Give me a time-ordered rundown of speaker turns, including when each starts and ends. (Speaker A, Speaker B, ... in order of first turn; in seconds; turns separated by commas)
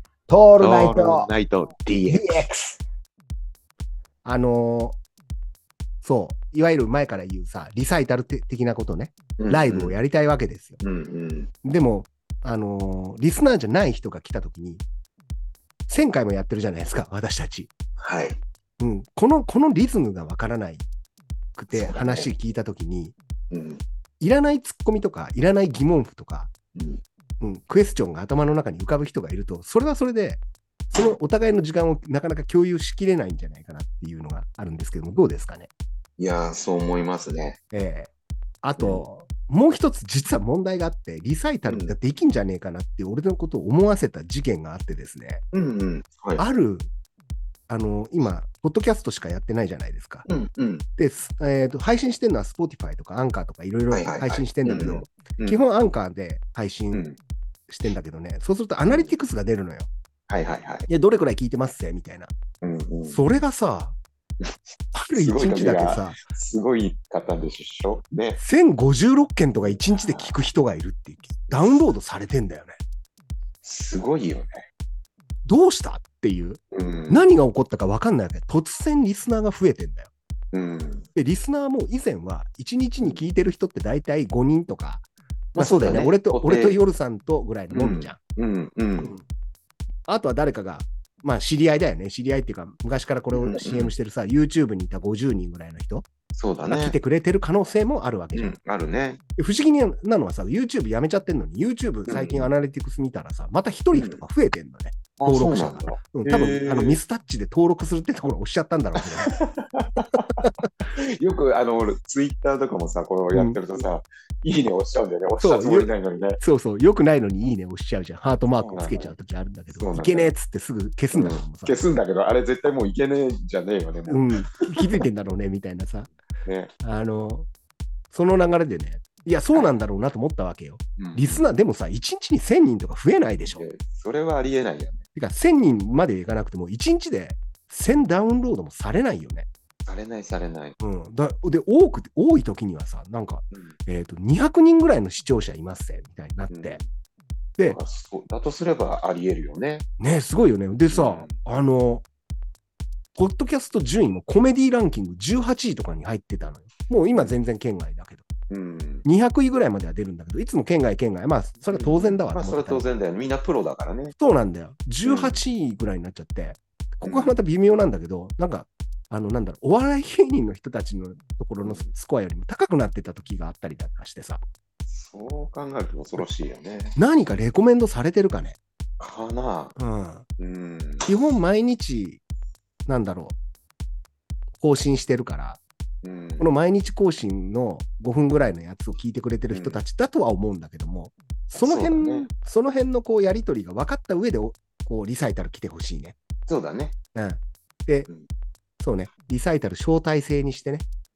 Speaker A: 0.3-1.3, Speaker B: 0.6-2.5, Speaker A: 2.1-2.8, Speaker A: 4.2-5.0, Speaker A: 6.0-10.8, Speaker B: 9.4-10.0, Speaker B: 10.8-11.5, Speaker A: 11.6-14.8, Speaker A: 15.9-17.7, Speaker B: 18.0-18.4, Speaker A: 18.8-20.8, Speaker A: 21.6-23.1, Speaker B: 21.7-22.3, Speaker B: 23.5-23.8, Speaker A: 24.2-26.5, Speaker B: 26.7-27.0, Speaker A: 27.4-30.4, Speaker A: 30.9-35.7, Speaker B: 36.2-37.6, Speaker A: 37.7-38.1, Speaker A: 38.6-45.4, Speaker B: 38.8-39.0, Speaker B: 41.6-41.9, Speaker B: 45.5-46.4, Speaker A: 46.4-46.9, Speaker A: 47.7-50.2, Speaker B: 50.2-50.8, Speaker A: 51.0-57.1, Speaker B: 53.9-55.6, Speaker B: 56.9-57.2, Speaker A: 57.7-59.9, Speaker B: 58.8-59.1, Speaker B: 60.3-60.9, Speaker A: 60.9-62.3, Speaker B: 62.6-63.2, Speaker A: 63.1-64.0, Speaker A: 64.9-66.2, Speaker B: 65.1-68.4, Speaker A: 68.4-72.8, Speaker B: 69.9-70.4, Speaker B: 71.5-71.8, Speaker B: 73.6-74.6, Speaker A: 75.5-80.1, Speaker B: 76.7-77.3, Speaker B: 80.5-81.1, Speaker A: 81.1-85.0, Speaker B: 85.5-86.8, Speaker A: 85.6-88.2, Speaker B: 87.7-89.1, Speaker A: 90.1-96.0, Speaker B: 93.3-93.9, Speaker B: 96.3-97.0, Speaker A: 96.6-98.5, Speaker B: 98.3-99.2, Speaker A: 99.4-109.3, Speaker B: 102.1-102.5, Speaker B: 103.9-104.2, Speaker B: 105.2-107.0, Speaker B: 109.2-110.3, Speaker A: 110.4-110.7, Speaker B: 111.2-116.4, Speaker A: 113.3-113.6, Speaker A: 115.4-121.8, Speaker B: 118.6-119.1, Speaker B: 119.7-120.3, Speaker B: 121.1-125.0, Speaker A: 124.1-126.1, Speaker B: 126.4-126.7, Speaker A: 126.8-127.5, Speaker A: 128.1-133.6, Speaker B: 131.0-131.5, Speaker B: 133.5-135.0, Speaker A: 135.1-139.5, Speaker B: 139.8-140.8, Speaker A: 140.8-146.8, Speaker B: 146.5-146.8, Speaker B: 147.7-149.9, Speaker A: 150.0-152.0, Speaker B: 150.9-151.3, Speaker A: 153.2-158.2, Speaker B: 157.1-157.4, Speaker B: 158.5-159.0, Speaker A: 159.0-162.9, Speaker B: 161.7-164.1, Speaker A: 164.2-174.4, Speaker B: 165.0-165.4, Speaker B: 167.0-167.4, Speaker B: 171.6-171.9, Speaker B: 174.9-176.9, Speaker A: 176.9-178.6, Speaker B: 179.0-179.8, Speaker A: 179.8-180.2, Speaker B: 180.4-181.1, Speaker A: 181.1-182.2, Speaker A: 182.8-183.3, Speaker A: 184.6-185.6, Speaker B: 186.0-186.5, Speaker A: 186.4-196.2, Speaker B: 189.5-189.8, Speaker B: 191.6-192.3, Speaker B: 196.5-196.9, Speaker A: 197.1-198.1, Speaker A: 198.8-200.8